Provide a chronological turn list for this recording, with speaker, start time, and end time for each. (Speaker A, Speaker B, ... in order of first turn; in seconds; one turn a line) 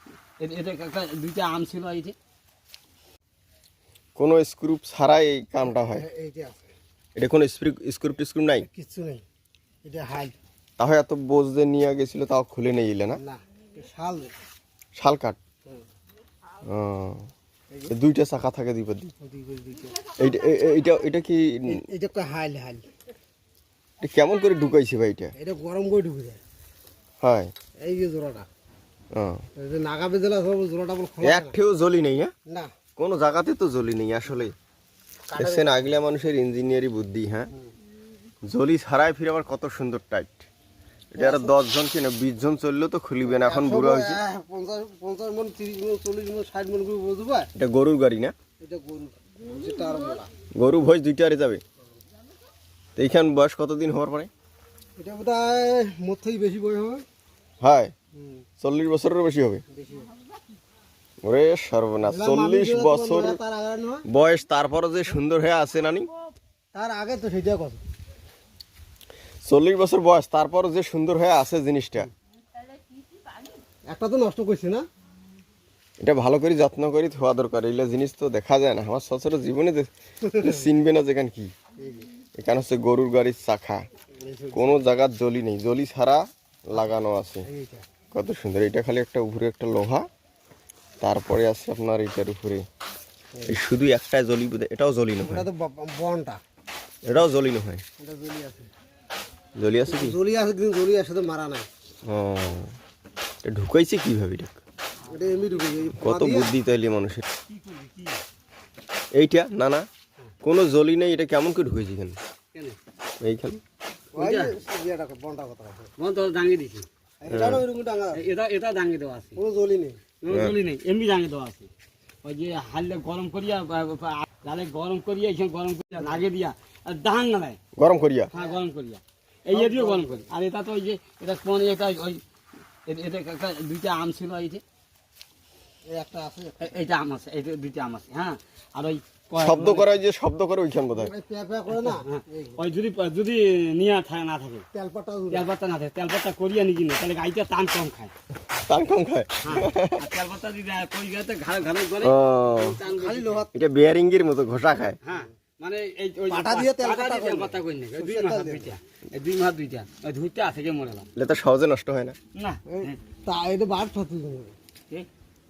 Speaker A: 0.4-2.1
Speaker B: 4.2-6.1
Speaker C: 5.7-6.7
Speaker B: 7.2-8.7
Speaker C: 8.7-9.2
Speaker C: 9.8-10.3
Speaker B: 10.8-13.2
Speaker C: 13.2-14.3
Speaker B: 14.9-15.4
Speaker B: 16.6-17.3
Speaker B: 17.9-19.1
Speaker C: 19.1-20.1
Speaker B: 20.1-21.9
Speaker C: 21.7-22.8
Speaker B: 24.0-25.3
Speaker C: 25.3-26.4
Speaker B: 27.2-27.5
Speaker C: 27.8-28.5
Speaker B: 29.1-29.4
Speaker C: 29.6-31.6
Speaker B: 31.2-32.3
Speaker C: 32.5-32.7
Speaker B: 33.0-34.5
Speaker C: 35.3-35.9
Speaker B: 35.3-37.5
Speaker B: 38.4-40.5
Speaker B: 41.1-44.2
Speaker C: 41.2-41.5
Speaker C: 43.2-47.5
Speaker B: 47.5-48.3
Speaker C: 48.6-50.3
Speaker B: 50.5-51.6
Speaker B: 53.0-54.3
Speaker C: 55.0-57.0
Speaker B: 57.6-57.9
Speaker C: 58.1-58.5
Speaker B: 58.6-59.6
Speaker C: 59.7-60.1
Speaker B: 61.2-63.4
Speaker C: 62.0-64.0
Speaker B: 64.0-66.1
Speaker C: 66.7-67.8
Speaker B: 69.4-72.1
Speaker C: 73.9-74.9
Speaker B: 76.0-81.5
Speaker C: 80.2-80.6
Speaker C: 81.8-82.1
Speaker B: 82.3-83.8
Speaker C: 84.2-84.8
Speaker B: 84.5-87.5
Speaker C: 87.4-87.8
Speaker B: 88.1-90.1
Speaker B: 91.0-92.7
Speaker C: 93.3-93.6
Speaker B: 93.5-95.5
Speaker C: 95.2-96.4
Speaker B: 97.0-97.8
Speaker C: 98.0-98.7
Speaker B: 99.6-100.2
Speaker C: 99.9-101.7
Speaker B: 102.0-102.8
Speaker B: 103.4-104.6
Speaker A: 105.1-105.6
Speaker C: 105.1-106.5
Speaker B: 106.0-107.3
Speaker A: 107.5-108.2
Speaker B: 109.1-109.9
Speaker B: 110.4-112.2
Speaker B: 113.2-113.6
Speaker C: 114.1-115.9
Speaker A: 114.2-114.5
Speaker A: 116.0-116.9
Speaker C: 117.2-118.2
Speaker B: 117.3-117.6
Speaker A: 118.1-119.4
Speaker C: 119.4-120.0
Speaker A: 120.2-121.7
Speaker B: 120.3-120.5
Speaker A: 122.2-127.6
Speaker B: 127.8-128.3
Speaker A: 128.3-132.2
Speaker C: 129.5-130.3
Speaker A: 132.8-134.6
Speaker C: 135.8-136.7
Speaker A: 136.6-139.9
Speaker B: 139.4-141.1
Speaker C: 140.9-142.6
Speaker A: 141.7-144.7
Speaker C: 144.7-145.5
Speaker A: 145.3-148.1
Speaker B: 148.7-150.0
Speaker A: 149.4-153.4
Speaker B: 152.0-152.8
Speaker C: 152.8-153.5
Speaker B: 153.5-155.0
Speaker A: 155.0-161.1
Speaker C: 156.3-158.7
Speaker B: 161.2-162.2
Speaker A: 162.3-163.0
Speaker C: 162.7-164.5